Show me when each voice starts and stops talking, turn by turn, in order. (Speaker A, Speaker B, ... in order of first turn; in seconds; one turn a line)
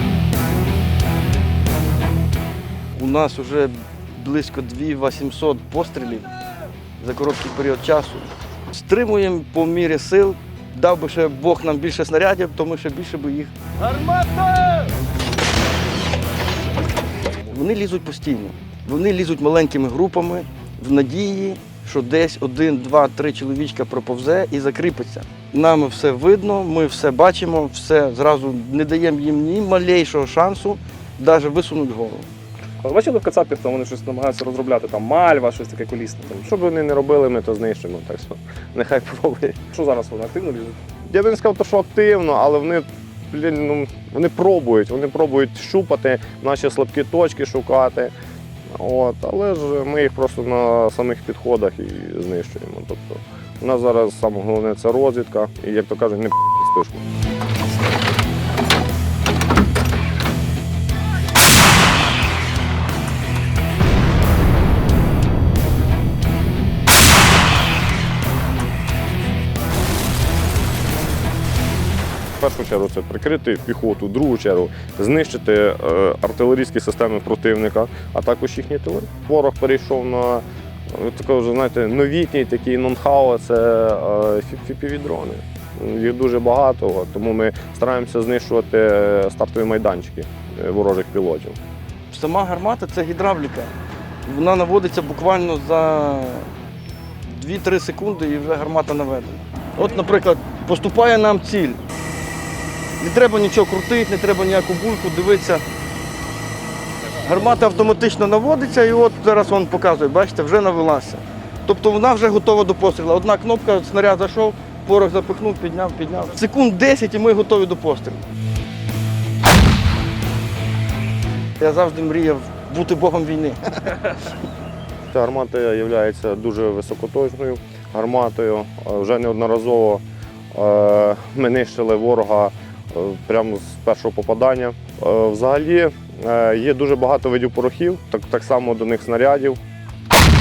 Speaker A: 2.9-6.3
Speaker A: 7.0-14.8
Speaker A: 17.4-32.3
Speaker B: 32.8-36.5
Speaker C: 36.4-39.6
Speaker B: 39.7-40.8
Speaker C: 41.1-48.1
Speaker C: 48.8-57.0
Speaker C: 72.4-91.5
Speaker A: 92.1-93.7
Speaker A: 94.2-96.5
Speaker A: 97.3-101.8
Speaker A: 103.0-105.6
Speaker A: 107.1-118.2
Speaker A: 121.6-124.1
Speaker C: 125.1-139.6